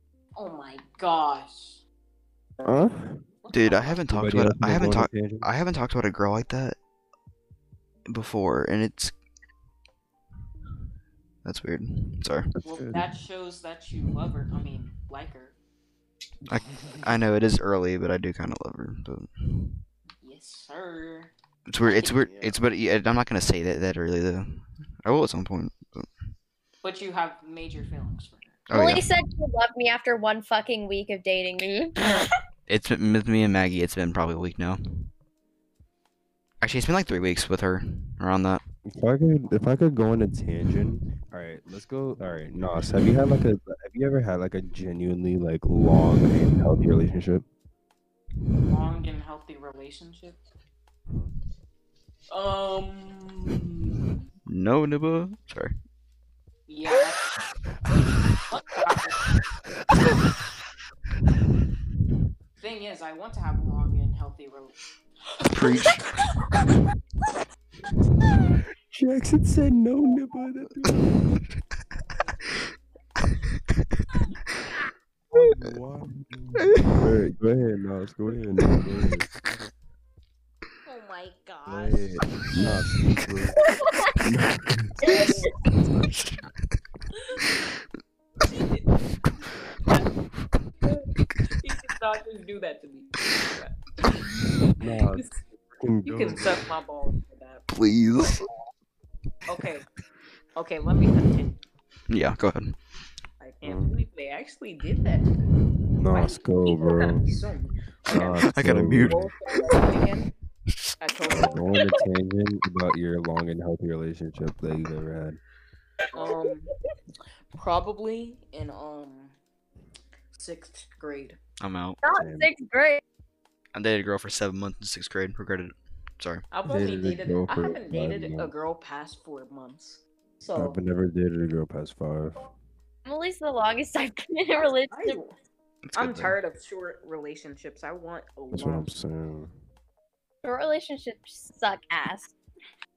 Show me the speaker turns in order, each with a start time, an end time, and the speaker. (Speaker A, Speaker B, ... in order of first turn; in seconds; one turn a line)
Speaker A: 0.3-1.8
Speaker B: 2.6-3.2
Speaker A: 3.4-4.0
Speaker C: 3.5-6.8
Speaker B: 4.1-5.5
Speaker C: 8.1-9.1
Speaker C: 11.4-12.5
Speaker B: 12.6-13.1
Speaker A: 12.6-15.5
Speaker C: 16.5-19.8
Speaker A: 20.2-21.3
Speaker C: 21.7-26.1
Speaker B: 22.0-22.6
Speaker A: 26.8-28.6
Speaker C: 28.7-29.1
Speaker D: 28.7-31.9
Speaker C: 32.7-35.1
Speaker C: 36.6-38.6
Speaker B: 38.9-47.4
Speaker A: 48.6-50.4
Speaker B: 51.1-51.3
Speaker A: 52.3-54.1
Speaker C: 54.5-55.7
Speaker A: 56.7-57.2
Speaker A: 58.5-59.3
Speaker A: 62.6-64.8
Speaker A: 65.4-66.0
Speaker C: 65.5-66.1
Speaker B: 68.9-71.4
Speaker B: 75.3-79.3
Speaker C: 76.6-77.0
Speaker A: 80.8-82.8
Speaker B: 81.7-83.6
Speaker D: 83.6-84.1
Speaker B: 84.2-85.1
Speaker A: 85.0-85.5
Speaker D: 85.0-85.5
Speaker C: 85.8-86.5
Speaker A: 87.1-87.4
Speaker A: 88.4-89.0
Speaker A: 90.8-95.3
Speaker B: 94.8-96.6
Speaker A: 96.0-97.6
Speaker C: 97.7-98.5
Speaker A: 99.5-99.9
Speaker A: 100.5-101.6
Speaker C: 102.1-102.8
Speaker A: 103.4-105.5
Speaker B: 103.6-104.0
Speaker B: 106.0-107.2
Speaker A: 106.1-110.3
Speaker B: 108.1-109.3
Speaker C: 108.1-109.3
Speaker A: 111.0-112.0
Speaker B: 111.2-115.4
Speaker A: 116.1-116.7
Speaker A: 117.5-119.3
Speaker A: 120.3-121.4
Speaker C: 121.6-122.0
Speaker D: 122.0-123.0
Speaker B: 122.1-122.5
Speaker C: 123.7-126.4
Speaker A: 126.5-130.8
Speaker B: 126.7-128.5
Speaker B: 130.5-132.3
Speaker D: 133.0-135.2
Speaker A: 134.9-135.3
Speaker C: 135.8-136.3
Speaker A: 135.9-138.9
Speaker B: 138.5-139.5
Speaker D: 140.4-142.3